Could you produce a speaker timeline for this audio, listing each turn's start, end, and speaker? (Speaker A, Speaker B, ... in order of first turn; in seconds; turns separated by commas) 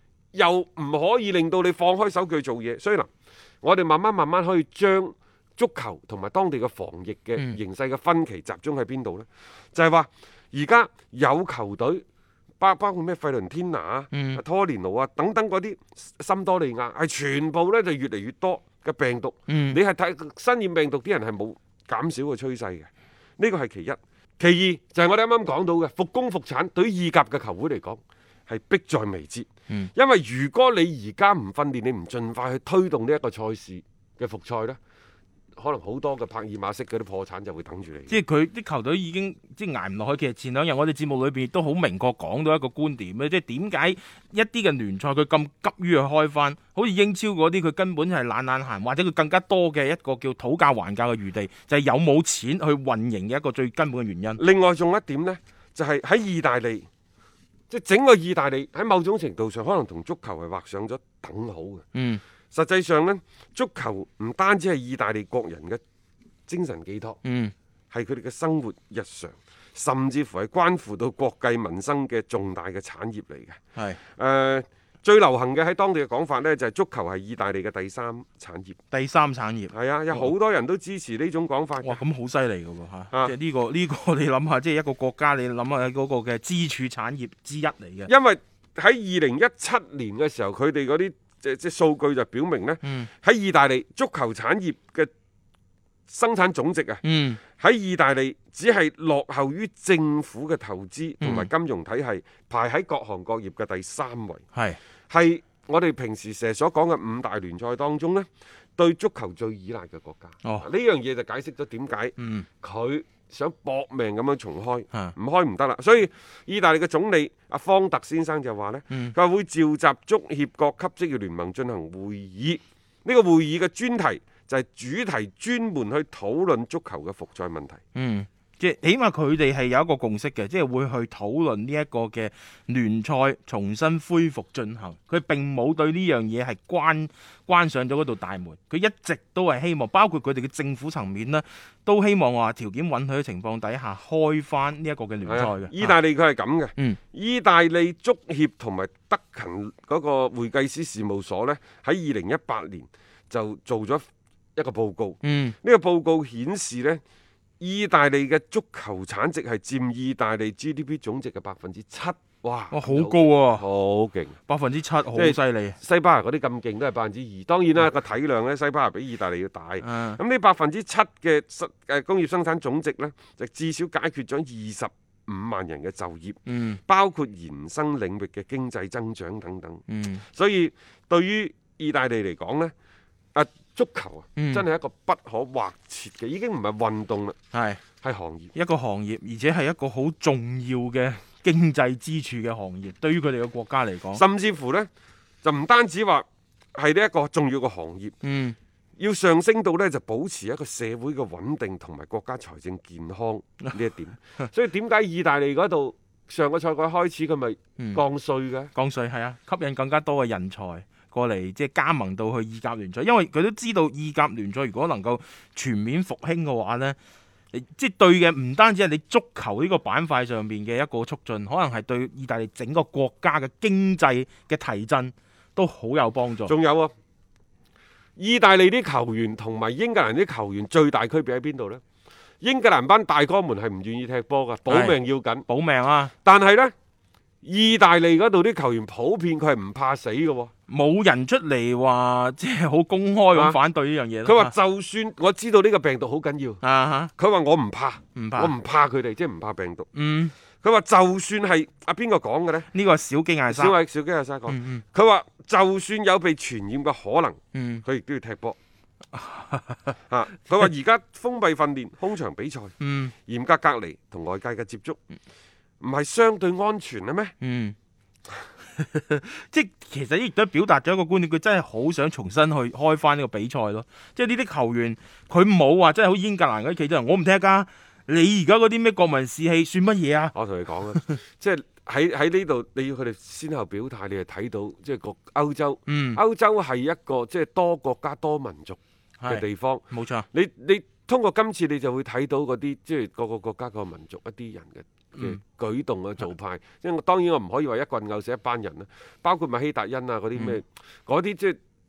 Speaker A: 0.3-3.1, Speaker A: 3.6-12.0, Speaker A: 12.6-22.9, Speaker B: 14.1-14.4, Speaker B: 19.5-19.8, Speaker A: 23.4-34.8, Speaker A: 35.6-38.2, Speaker B: 38.1-54.4, Speaker A: 54.4-56.9, Speaker A: 57.7-61.9, Speaker B: 61.9-62.2, Speaker A: 62.5-65.8, Speaker A: 66.5-67.2, Speaker B: 67.2-67.5, Speaker A: 67.9-73.6, Speaker B: 73.8-74.0, Speaker A: 74.2-78.8, Speaker B: 78.9-80.3, Speaker A: 79.7-82.0, Speaker B: 81.8-88.1, Speaker A: 88.1-95.1, Speaker B: 92.8-93.1, Speaker A: 96.1-97.0, Speaker B: 97.0-97.4, Speaker A: 97.6-104.4, Speaker B: 101.2-101.5, Speaker B: 104.5-104.8, Speaker A: 105.1-127.8, Speaker B: 112.2-112.5, Speaker B: 128.0-145.9, Speaker A: 145.3-157.0, Speaker B: 155.2-155.6, Speaker A: 157.6-164.4, Speaker B: 162.7-163.7, Speaker B: 164.5-165.8, Speaker A: 165.2-182.7, Speaker B: 169.8-170.2, Speaker B: 176.5-176.8, Speaker B: 179.9-180.2, Speaker A: 183.3-187.4, Speaker B: 184.4-184.7, Speaker B: 187.5-187.8, Speaker A: 188.0-188.5, Speaker B: 188.5-194.2, Speaker A: 194.1-194.9, Speaker A: 195.4-198.2, Speaker B: 198.2-198.6, Speaker A: 199.0-208.7, Speaker B: 208.8-217.0, Speaker B: 217.5-226.5, Speaker A: 226.5-226.9, Speaker A: 228.2-231.8, Speaker A: 232.4-235.5, Speaker B: 234.7-236.1, Speaker A: 236.2-236.7, Speaker A: 237.4-240.5, Speaker B: 240.7-244.5, Speaker A: 244.2-246.6, Speaker B: 246.6-247.1, Speaker A: 247.2-249.9, Speaker B: 248.2-248.5, Speaker B: 249.9-250.3, Speaker A: 250.6-252.7, Speaker B: 252.7-253.8, Speaker A: 253.5-258.6, Speaker B: 254.5-254.8, Speaker B: 257.5-257.8, Speaker B: 259.1-260.0, Speaker A: 260.1-262.7, Speaker B: 262.8-263.1, Speaker A: 263.3-265.0, Speaker A: 265.8-267.3, Speaker B: 267.4-267.8, Speaker B: 268.8-280.3, Speaker A: 280.4-301.6, Speaker B: 280.9-281.2, Speaker B: 285.9-286.2, Speaker B: 289.2-290.3